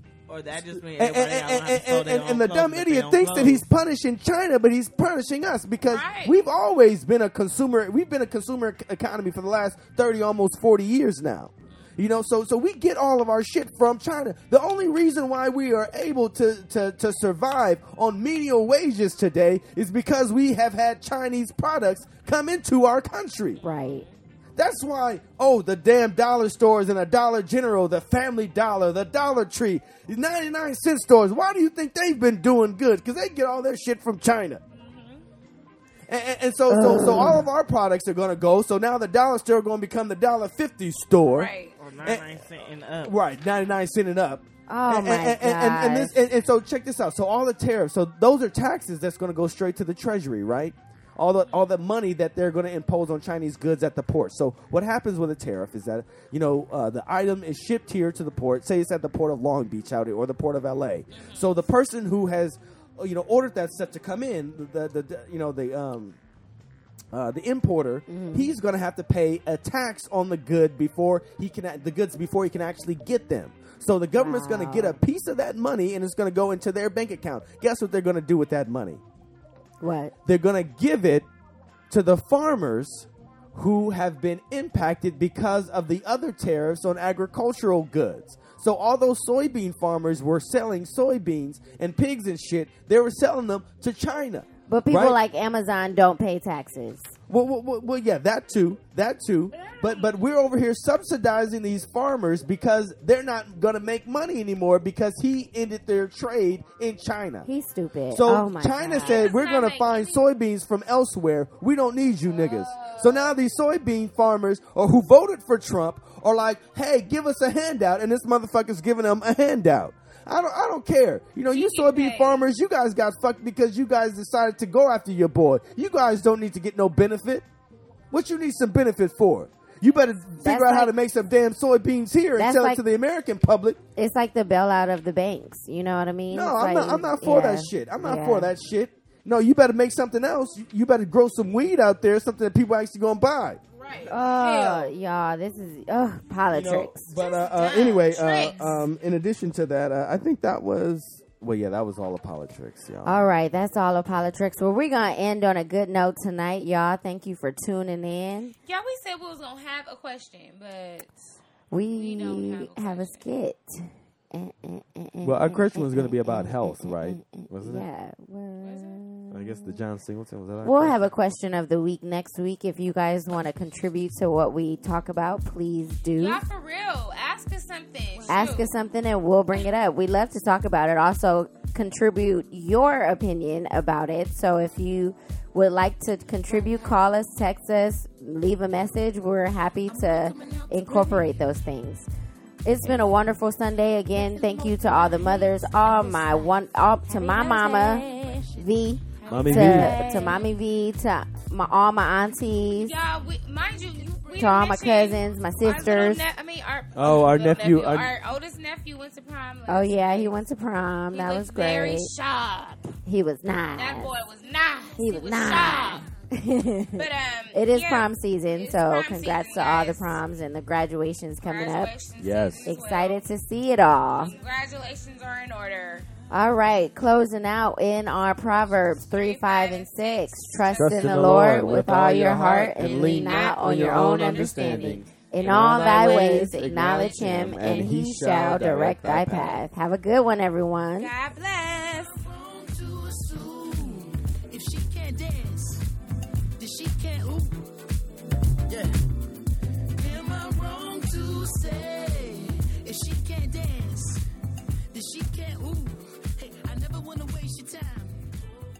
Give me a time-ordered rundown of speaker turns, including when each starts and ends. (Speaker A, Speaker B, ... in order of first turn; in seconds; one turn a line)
Speaker A: 0.3-3.6
Speaker B: 0.7-23.6
Speaker C: 5.8-6.4
Speaker D: 23.6-24.1
Speaker B: 24.6-34.6
Speaker C: 34.7-35.2
Speaker B: 36.1-41.5
Speaker D: 36.7-37.4
Speaker C: 41.2-41.7
Speaker A: 41.8-43.1
Speaker B: 42.0-42.5
Speaker B: 43.0-66.2
Speaker D: 44.7-46.1
Speaker C: 61.1-61.5
Speaker B: 67.1-79.0
Speaker D: 68.1-68.5
Speaker D: 74.2-75.0
Speaker D: 79.8-80.1
Speaker B: 80.2-81.3
Speaker B: 81.9-95.2
Speaker D: 94.7-97.1
Speaker B: 97.3-107.5
Speaker C: 99.5-100.2
Speaker D: 107.4-109.3
Speaker B: 108.1-127.4
Speaker C: 109.0-110.2
Speaker C: 112.2-113.4
Speaker C: 121.5-122.5
Speaker B: 128.1-133.8
Speaker D: 130.4-130.9
Speaker D: 132.4-132.8
Speaker D: 133.9-138.5
Speaker B: 136.3-143.6
Speaker C: 143.8-144.9
Speaker D: 144.1-147.1
Speaker B: 146.5-153.3
Speaker C: 147.2-148.8
Speaker D: 153.0-158.5
Speaker C: 158.6-161.1
Speaker D: 161.7-169.8
Speaker C: 161.9-163.2
Speaker B: 165.2-167.9
Speaker C: 168.6-169.0
Speaker B: 169.3-171.0
Speaker D: 170.6-176.4
Speaker C: 176.2-178.7
Speaker D: 178.3-192.1
Speaker C: 186.5-187.1
Speaker E: 189.9-191.3
Speaker D: 192.6-202.9
Speaker E: 194.1-196.6
Speaker C: 197.1-198.5
Speaker E: 197.2-197.7
Speaker C: 199.2-200.4
Speaker B: 199.3-200.1
Speaker C: 202.8-210.4
Speaker D: 204.3-206.2
Speaker B: 206.9-208.1
Speaker D: 209.7-212.1
Speaker C: 211.1-213.0
Speaker D: 213.1-214.1
Speaker C: 213.7-216.1
Speaker D: 215.0-221.9
Speaker C: 216.9-220.2
Speaker C: 221.4-223.2
Speaker B: 222.2-222.7
Speaker D: 222.7-224.3
Speaker C: 224.2-226.1
Speaker D: 226.3-241.1
Speaker C: 228.9-231.4
Speaker B: 230.7-239.6
Speaker C: 232.8-234.8
Speaker C: 241.0-242.2
Speaker E: 242.3-245.8
Speaker E: 246.6-247.7
Speaker E: 250.0-254.2
Speaker E: 254.9-258.2